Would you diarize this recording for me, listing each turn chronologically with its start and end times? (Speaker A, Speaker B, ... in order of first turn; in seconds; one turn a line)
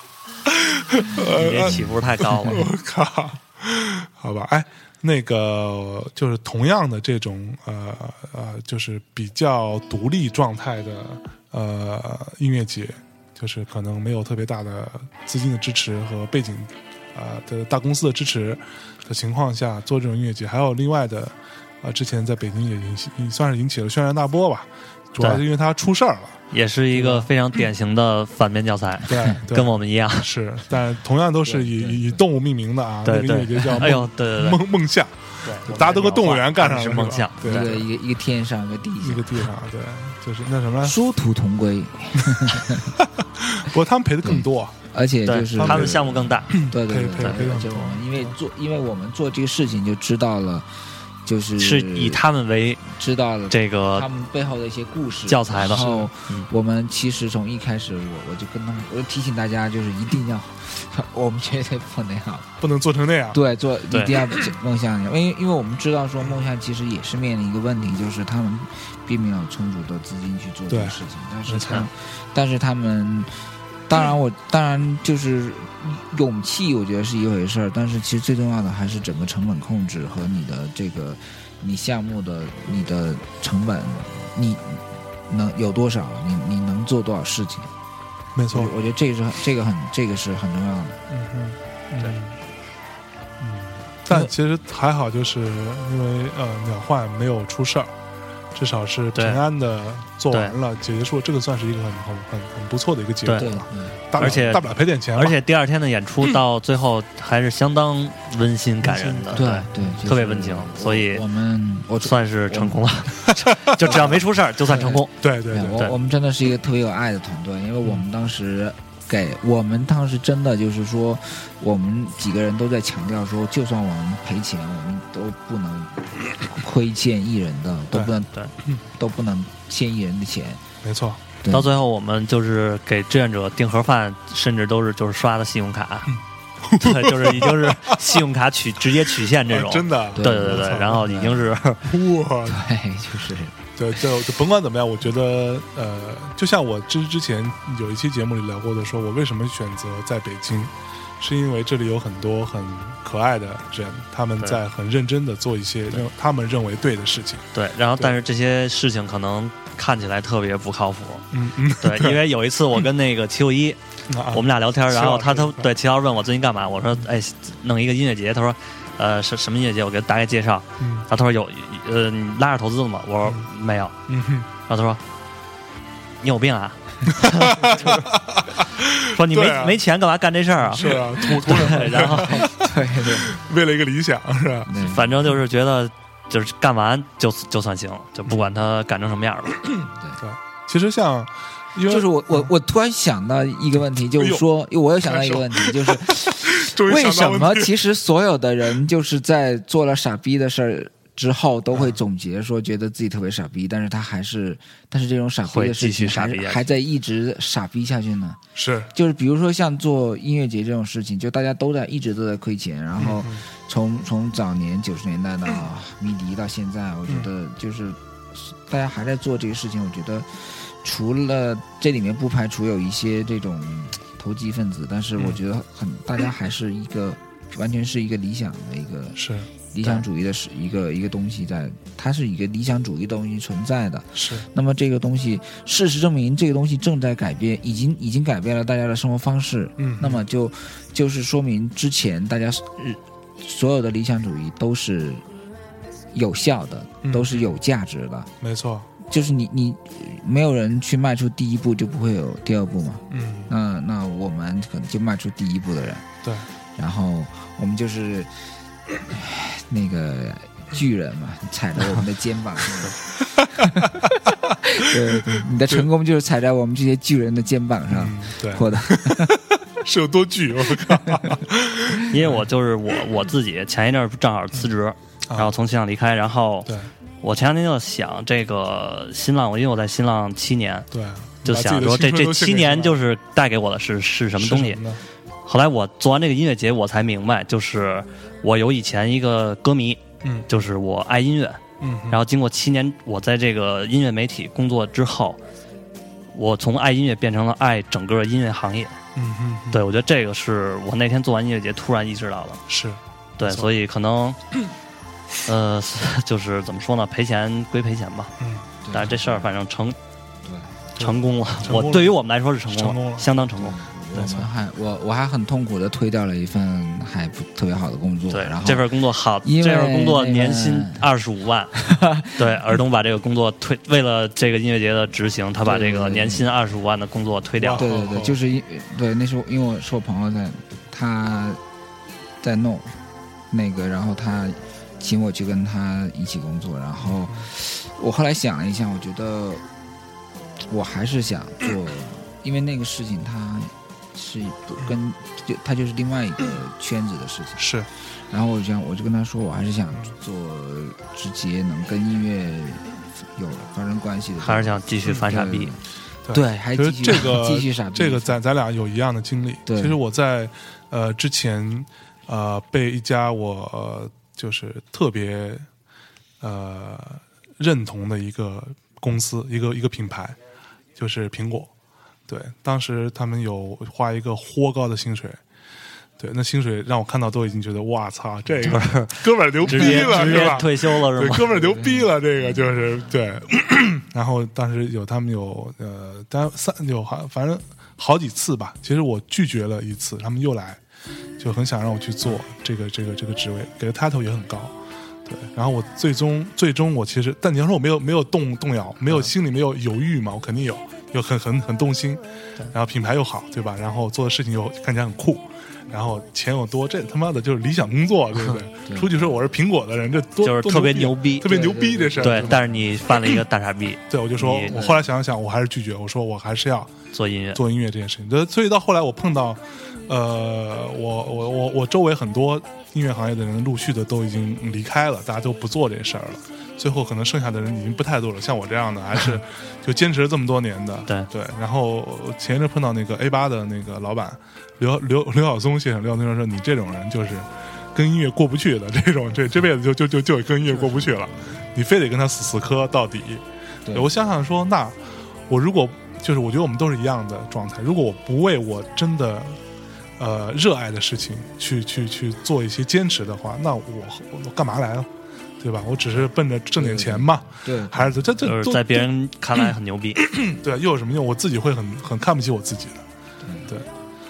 Speaker A: 0.5-27.3
Speaker B: 1.2-2.7
Speaker B: 26.5-30.3
Speaker A: 29.1-37.9
Speaker C: 31.4-32.2
Speaker B: 33.0-34.6
Speaker B: 35.4-37.7
Speaker C: 37.4-39.4
Speaker A: 39.0-41.0
Speaker C: 40.8-43.0
Speaker A: 42.4-44.8
Speaker C: 44.2-50.7
Speaker B: 45.3-46.5
Speaker A: 45.6-48.4
Speaker C: 51.2-52.2
Speaker B: 51.6-52.8
Speaker C: 52.9-62.5
Speaker B: 53.5-54.1
Speaker B: 55.3-56.5
Speaker A: 62.6-63.4
Speaker C: 63.3-73.3
Speaker B: 63.9-64.2
Speaker A: 70.7-71.9
Speaker C: 73.9-87.7
Speaker A: 88.3-88.7
Speaker C: 88.5-91.0
Speaker A: 91.1-92.4
Speaker A: 93.4-98.0
Speaker A: 98.5-105.4
Speaker B: 99.2-99.4
Speaker B: 103.3-103.6
Speaker C: 103.4-104.5
Speaker B: 104.2-111.2
Speaker A: 108.8-110.0
Speaker C: 109.3-112.8
Speaker B: 112.0-115.2
Speaker A: 113.7-114.0
Speaker C: 113.8-128.3
Speaker A: 115.2-115.8
Speaker C: 128.9-130.6
Speaker A: 130.8-131.2
Speaker C: 131.4-131.7
Speaker B: 131.5-136.1
Speaker A: 136.1-138.2
Speaker B: 136.8-141.8
Speaker A: 139.4-141.1
Speaker C: 140.2-141.5
Speaker A: 141.8-142.6
Speaker C: 142.5-144.0
Speaker A: 143.8-157.5
Speaker B: 157.6-161.2
Speaker A: 161.3-162.2
Speaker B: 161.8-163.8
Speaker A: 164.1-165.7
Speaker B: 164.3-173.9
Speaker A: 170.8-171.1
Speaker A: 174.1-174.5
Speaker B: 174.7-175.0
Speaker B: 176.2-177.9
Speaker A: 177.1-179.8
Speaker B: 179.1-182.4
Speaker A: 180.6-184.7
Speaker C: 182.2-183.3
Speaker C: 184.7-185.1
Speaker B: 184.8-189.7
Speaker C: 189.9-190.2
Speaker A: 190.2-192.5
Speaker C: 191.9-208.4
Speaker A: 194.2-194.4
Speaker A: 195.0-197.7
Speaker B: 205.5-206.7
Speaker A: 208.6-208.9
Speaker C: 208.9-245.2
Speaker A: 213.0-213.4
Speaker A: 229.2-229.5
Speaker A: 234.2-234.5
Speaker A: 239.8-240.2
Speaker C: 246.1-248.3
Speaker A: 247.0-247.5
Speaker A: 248.4-248.9
Speaker C: 249.1-256.1
Speaker A: 253.1-253.5
Speaker C: 256.8-258.3
Speaker C: 259.0-269.4
Speaker A: 263.2-263.8
Speaker A: 264.8-265.9
Speaker A: 267.9-272.4
Speaker B: 272.1-280.9
Speaker A: 275.3-275.5
Speaker A: 280.9-283.0
Speaker B: 281.4-284.8
Speaker A: 284.4-285.0
Speaker B: 285.5-295.4
Speaker A: 291.8-292.2
Speaker B: 296.3-299.0
Speaker A: 299.2-299.8
Speaker B: 299.7-302.6
Speaker A: 302.7-303.7
Speaker B: 303.4-304.4
Speaker B: 305.4-308.3
Speaker A: 308.4-308.7
Speaker C: 308.8-309.5
Speaker B: 308.9-310.0
Speaker C: 310.4-310.8
Speaker A: 311.0-313.3
Speaker B: 311.0-314.5
Speaker C: 313.6-318.9
Speaker B: 318.3-321.8
Speaker C: 319.4-321.1
Speaker C: 321.8-322.4
Speaker B: 322.4-327.9
Speaker C: 325.6-326.4
Speaker A: 327.6-328.4
Speaker C: 327.8-331.6
Speaker C: 332.4-333.0
Speaker C: 333.5-339.6
Speaker A: 337.0-337.5
Speaker C: 340.7-347.6
Speaker A: 347.6-347.9
Speaker C: 348.3-355.8
Speaker B: 354.4-355.7
Speaker A: 356.3-365.7
Speaker C: 356.3-358.4
Speaker C: 359.7-360.0
Speaker A: 366.4-370.4
Speaker A: 371.0-371.7
Speaker A: 372.3-375.4
Speaker A: 376.2-390.8
Speaker B: 378.6-381.5
Speaker A: 391.4-413.4
Speaker C: 408.9-409.3
Speaker B: 410.4-411.6
Speaker C: 411.4-412.8
Speaker B: 412.2-415.1
Speaker A: 414.1-416.9
Speaker B: 417.1-417.6
Speaker A: 417.6-449.6
Speaker C: 443.9-444.1
Speaker A: 450.2-459.1
Speaker C: 456.8-458.3
Speaker B: 458.4-460.2
Speaker A: 460.2-463.0
Speaker C: 463.4-463.7